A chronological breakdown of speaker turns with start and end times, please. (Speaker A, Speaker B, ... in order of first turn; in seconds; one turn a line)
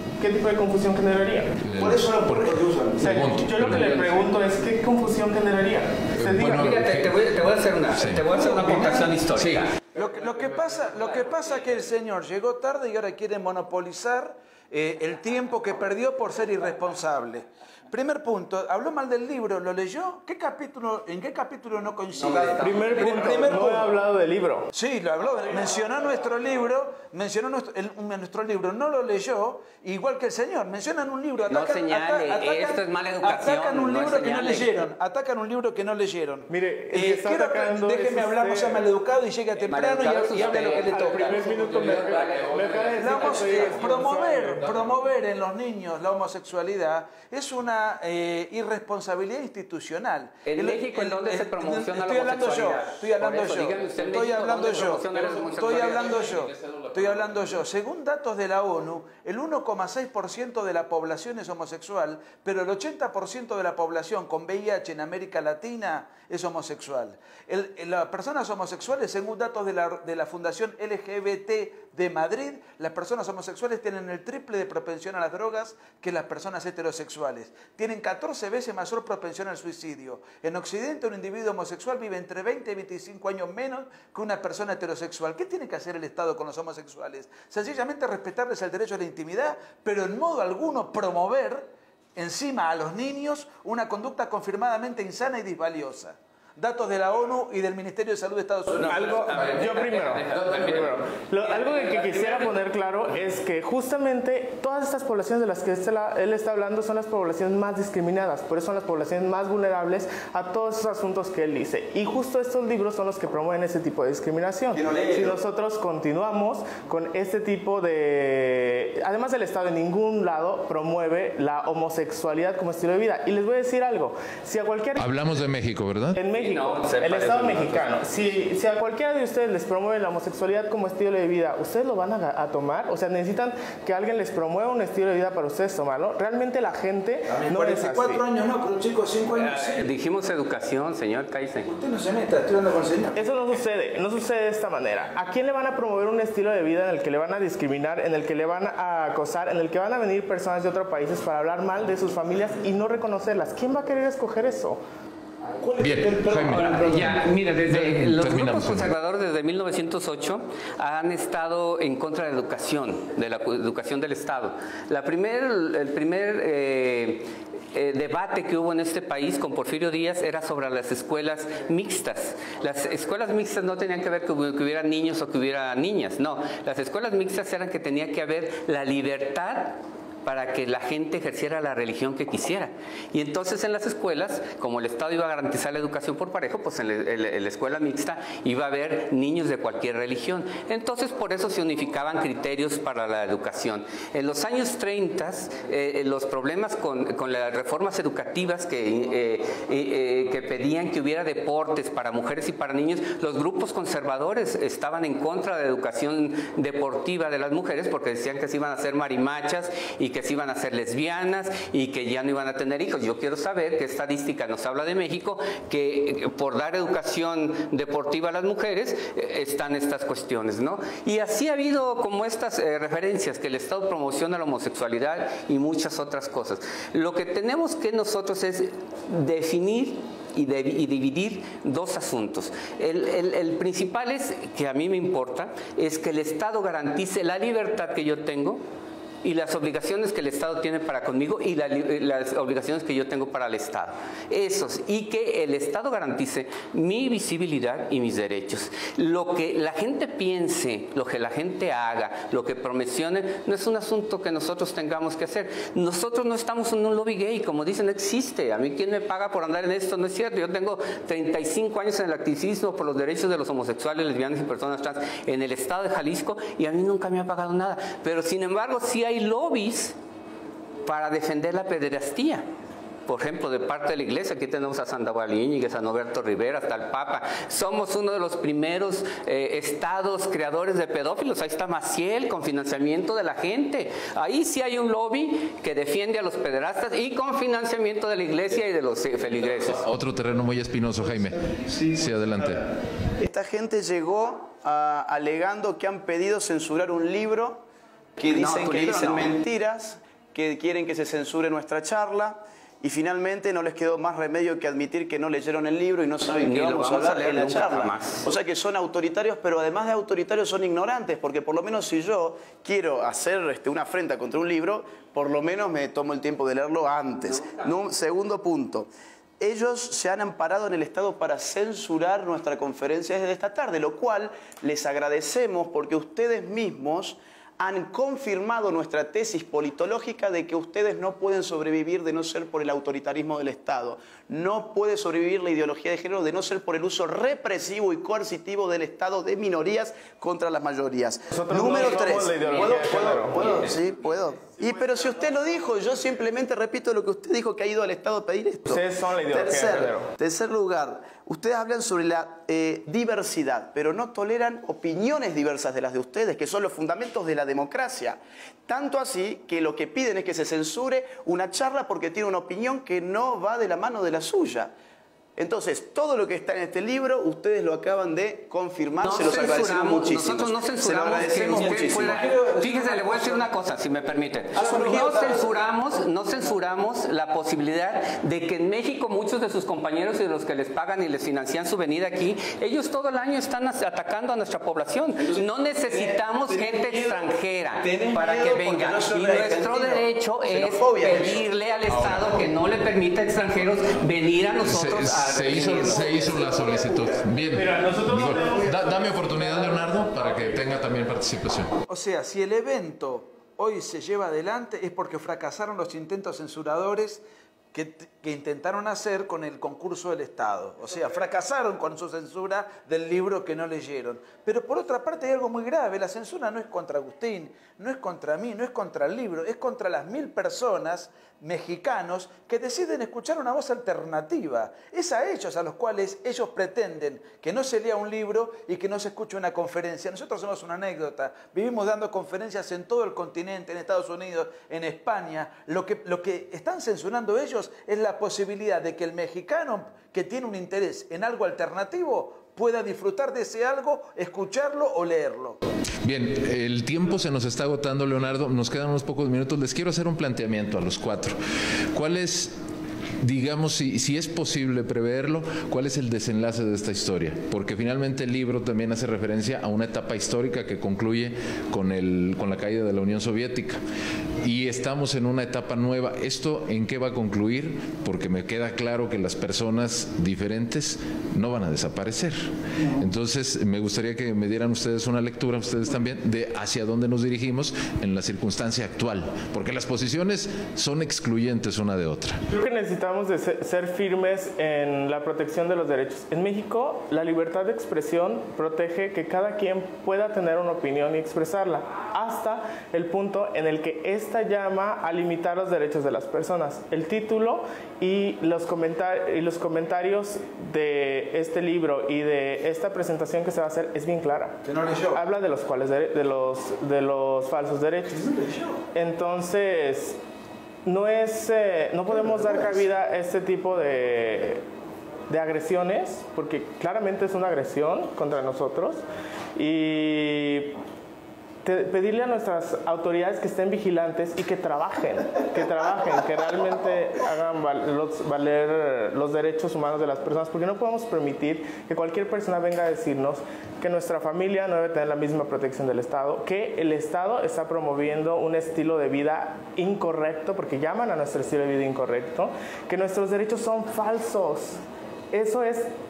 Speaker A: 0.2-1.6
Speaker B: 1.6-4.1
Speaker C: 1.8-3.1
Speaker A: 3.0-6.8
Speaker B: 6.1-8.3
Speaker D: 6.5-9.8
Speaker C: 8.5-9.1
Speaker B: 9.3-9.7
Speaker C: 9.9-23.9
Speaker D: 22.1-23.7
Speaker A: 22.6-24.7
Speaker C: 24.7-41.4
Speaker D: 31.5-34.7
Speaker A: 36.5-38.8
Speaker D: 39.6-44.0
Speaker A: 40.6-44.6
Speaker B: 41.4-43.8
Speaker C: 43.0-99.7
Speaker B: 44.5-45.0
Speaker D: 50.4-56.2
Speaker B: 55.0-57.6
Speaker D: 98.8-102.5
Speaker A: 98.8-125.3
Speaker B: 100.3-100.7
Speaker E: 114.7-115.4
Speaker B: 125.0-126.2
Speaker A: 126.2-138.2
Speaker D: 126.3-128.0
Speaker C: 137.3-139.8
Speaker D: 139.3-141.7
Speaker C: 141.6-143.2
Speaker A: 143.2-154.8
Speaker C: 155.6-157.2
Speaker B: 155.8-158.9
Speaker D: 156.5-238.6
Speaker D: 239.2-269.9
Speaker D: 270.9-272.4
Speaker D: 273.1-289.8
Speaker B: 289.7-292.7
Speaker E: 293.2-297.6
Speaker E: 298.2-364.7
Speaker D: 298.3-299.3
Speaker D: 306.4-308.2
Speaker A: 341.3-343.4
Speaker A: 348.7-350.1
Speaker E: 365.4-372.2
Speaker D: 369.0-396.6
Speaker C: 371.3-373.5
Speaker E: 374.6-375.5
Speaker C: 374.6-375.4
Speaker E: 385.2-387.2
Speaker E: 387.8-391.4
Speaker B: 391.9-392.5
Speaker B: 394.6-401.7
Speaker E: 395.6-397.1
Speaker A: 397.5-399.5
Speaker C: 401.9-445.6
Speaker B: 446.0-451.4
Speaker B: 451.9-452.5
Speaker B: 453.2-463.8
Speaker B: 464.4-482.4
Speaker A: 482.5-504.6
Speaker C: 504.6-505.2
Speaker A: 505.1-508.3
Speaker C: 508.1-508.8
Speaker A: 508.9-510.2
Speaker A: 510.9-514.6
Speaker A: 515.3-519.0
Speaker A: 519.5-520.8
Speaker A: 521.6-544.8
Speaker A: 545.3-545.9